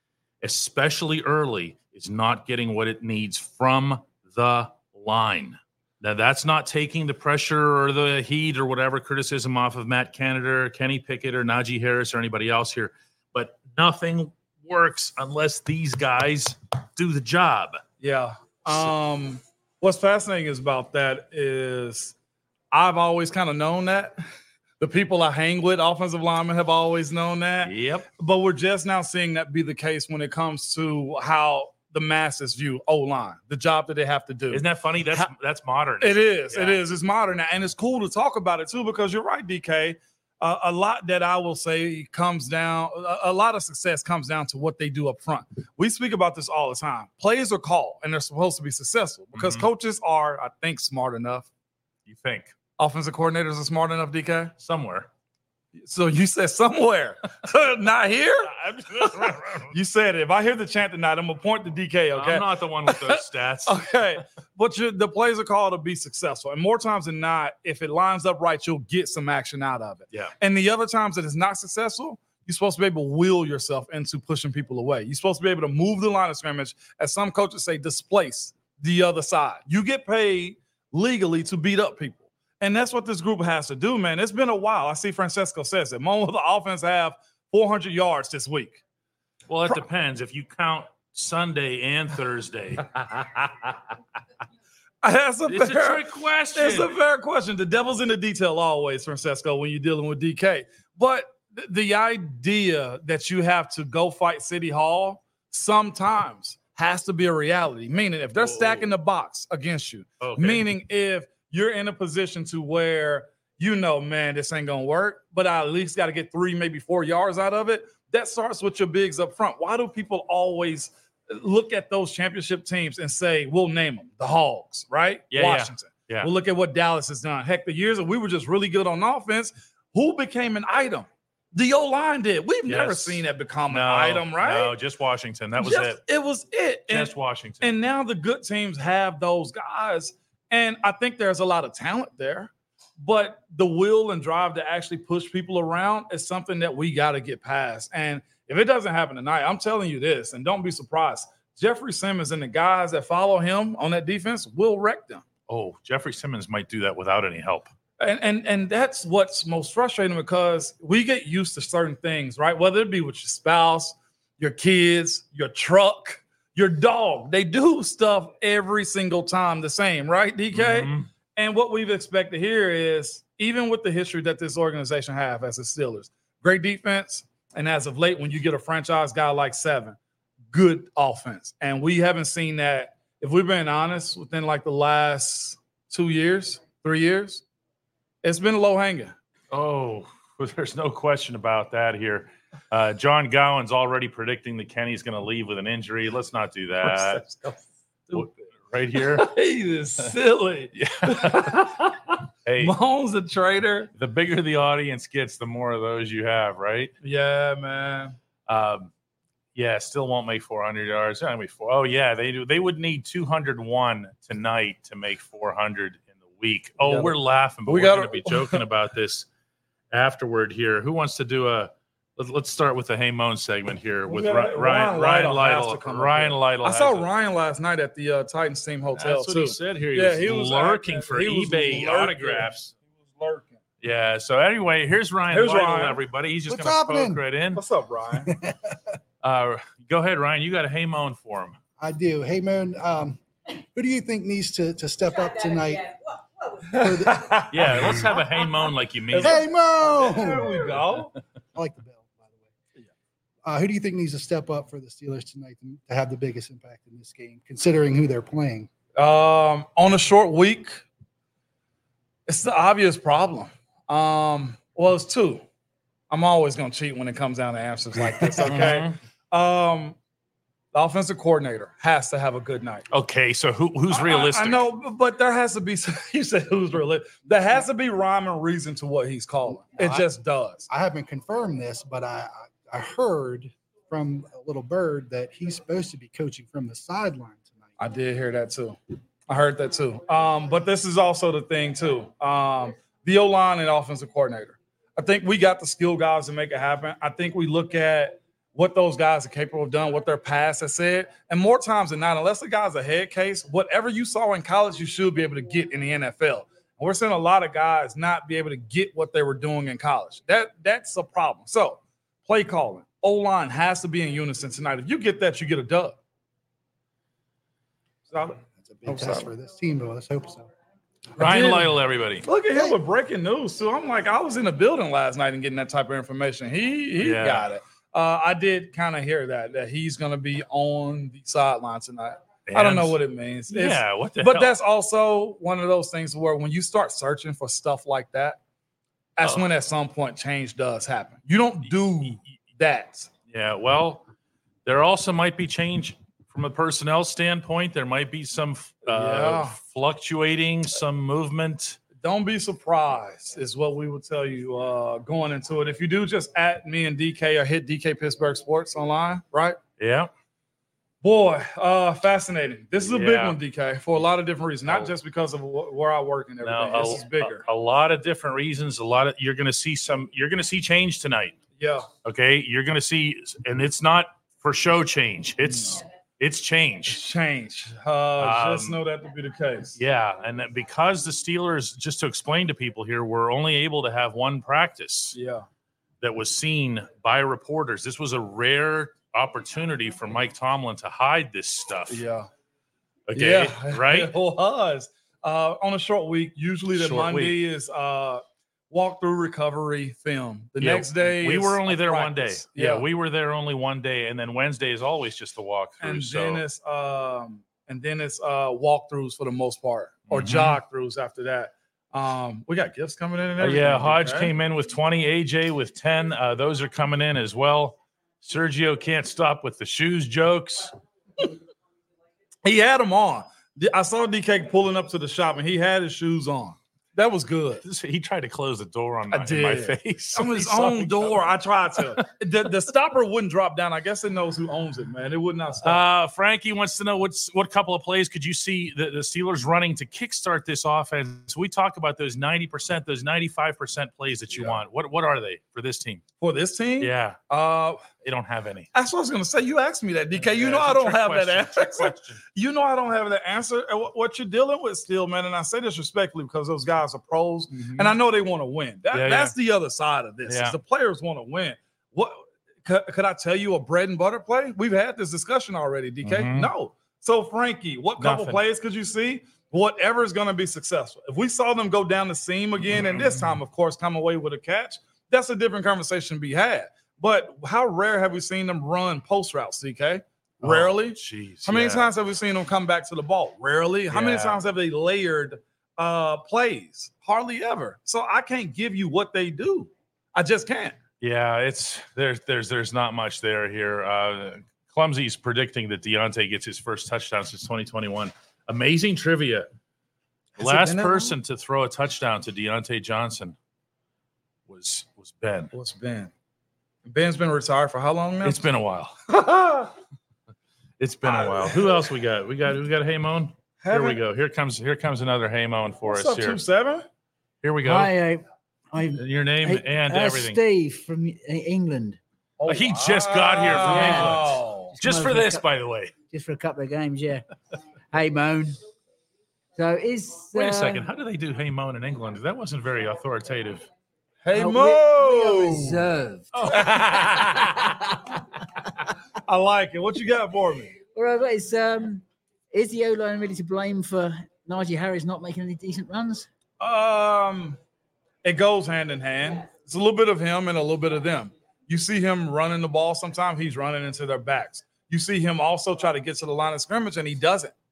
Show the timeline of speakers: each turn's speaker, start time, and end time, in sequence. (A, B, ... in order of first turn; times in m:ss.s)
0:00.4-0:17.8 A
0:18.0-0:22.1 B
0:22.7-0:24.2 B
0:24.8-0:35.3 B
0:27.6-0:28.1 A
0:34.5-0:36.8 A
0:36.0-0:51.5 B
0:49.3-0:49.6 A
0:52.0-0:52.5 A
0:52.8-0:54.5 B
0:54.6-0:55.1 A
0:55.8-1:28.8 B
0:58.4-0:59.8 A
1:02.1-1:03.8 A
1:29.5-1:33.7 A
1:35.0-2:14.7 B
1:35.4-1:36.9 A
1:48.4-1:48.9 A
1:50.2-1:50.7 A
2:05.3-2:06.3 A
2:12.7-2:16.0 A
2:15.6-2:35.2 B
2:16.9-2:17.7 A
2:35.5-2:37.7 A
2:38.0-3:00.0 B
2:50.5-2:51.1 A
3:00.5-3:07.4 B
3:08.2-3:09.1 B
3:09.5-3:17.2 A
3:16.8-3:18.5 B
3:18.1-3:19.3 A
3:19.0-3:23.9 B
3:20.7-3:21.7 A
3:22.4-3:22.7 A
3:24.0-3:26.9 A
3:27.0-3:28.2 B
3:28.5-3:28.9 A
3:29.5-3:39.3 A
3:36.8-3:38.6 B
3:39.9-3:47.1 A
3:44.1-3:53.6 B
3:49.0-3:52.7 A
3:53.8-3:57.6 A
3:55.3-3:56.0 B
3:56.5-3:57.2 C
3:57.5-3:58.3 B
3:58.3-3:58.8 C
3:59.2-4:01.6 A
4:01.8-4:03.2 C
4:03.7-4:06.0 C
4:06.7-4:08.0 B
4:06.7-4:07.4 C
4:07.5-4:09.4 A
4:09.1-4:11.1 B
4:09.2-4:10.8 C
4:11.5-4:12.5 C
4:13.4-4:18.7 C
4:19.0-4:20.8 B
4:22.3-4:25.4 B
4:26.1-4:30.0 B
4:28.4-4:29.0 A
4:30.7-4:32.8 B
4:32.9-4:34.7 A
4:33.9-4:40.7 B
4:39.7-4:40.0 C
4:40.7-4:47.7 C
4:47.8-5:16.0 B
5:18.1-5:19.3 B
5:18.6-5:20.5 C
5:21.2-5:38.4 B
5:21.2-5:22.2 A
5:27.0-5:27.5 A
5:32.5-5:33.0 A
5:33.5-5:34.5 A
5:39.2-5:43.1 B
5:43.3-5:44.0 A
5:44.6-5:51.8 A
5:48.8-5:49.6 B
5:52.0-5:59.6 B
5:59.8-6:00.1 A
6:01.0-6:07.4 B
6:02.8-6:03.4 A
6:06.4-6:11.4 A
6:11.6-6:11.9 B
6:12.0-6:17.0 A
6:15.4-6:15.8 B
6:16.9-6:19.8 B
6:18.2-6:18.8 A
6:19.8-6:25.2 A
6:25.1-6:25.4 B
6:26.0-6:32.0 A
6:31.9-6:32.3 B
6:33.1-6:34.1 A
6:33.1-6:42.8 B
6:36.7-6:37.4 A
6:40.6-6:46.4 A
6:45.8-6:54.3 B
6:50.1-6:50.6 A
6:53.4-7:00.7 A
7:02.4-7:07.6 B
7:07.6-7:11.2 A
7:09.1-7:15.8 B
7:15.6-7:26.0 A
7:24.3-7:24.6 B
7:26.2-7:27.8 B
7:26.8-7:27.2 A
7:28.0-7:28.7 A
7:28.7-8:10.8 B
7:30.2-7:32.2 A
7:37.5-7:37.9 A
7:38.9-7:39.3 A
7:40.3-7:40.6 A
7:46.0-7:46.5 A
7:48.0-7:48.4 A
7:52.8-7:53.3 A
8:00.4-8:01.9 A
8:03.9-8:04.4 A
8:11.0-8:19.5 A
8:20.4-8:21.1 B
8:20.4-8:23.4 A
8:24.5-8:25.5 A
8:25.5-8:26.1 B
8:26.8-8:28.4 B
8:28.2-8:28.9 A
8:29.1-8:29.7 B
8:30.8-8:36.4 A
8:31.0-8:31.7 B
8:33.6-8:34.0 B
8:35.9-8:36.8 B
8:37.4-8:37.9 A
8:37.6-8:42.0 D
8:39.0-8:40.4 A
8:42.4-8:44.7 B
8:42.5-8:45.9 A
8:43.4-8:45.4 D
8:46.1-8:47.2 D
8:47.9-8:48.6 D
8:49.6-8:50.8 D
8:50.3-8:53.7 A
8:54.2-8:55.8 B
8:54.3-8:58.2 D
8:56.3-8:57.8 A
8:59.2-9:00.8 B
9:00.9-9:06.3 D
9:06.6-9:07.6 B
9:08.2-9:17.5 B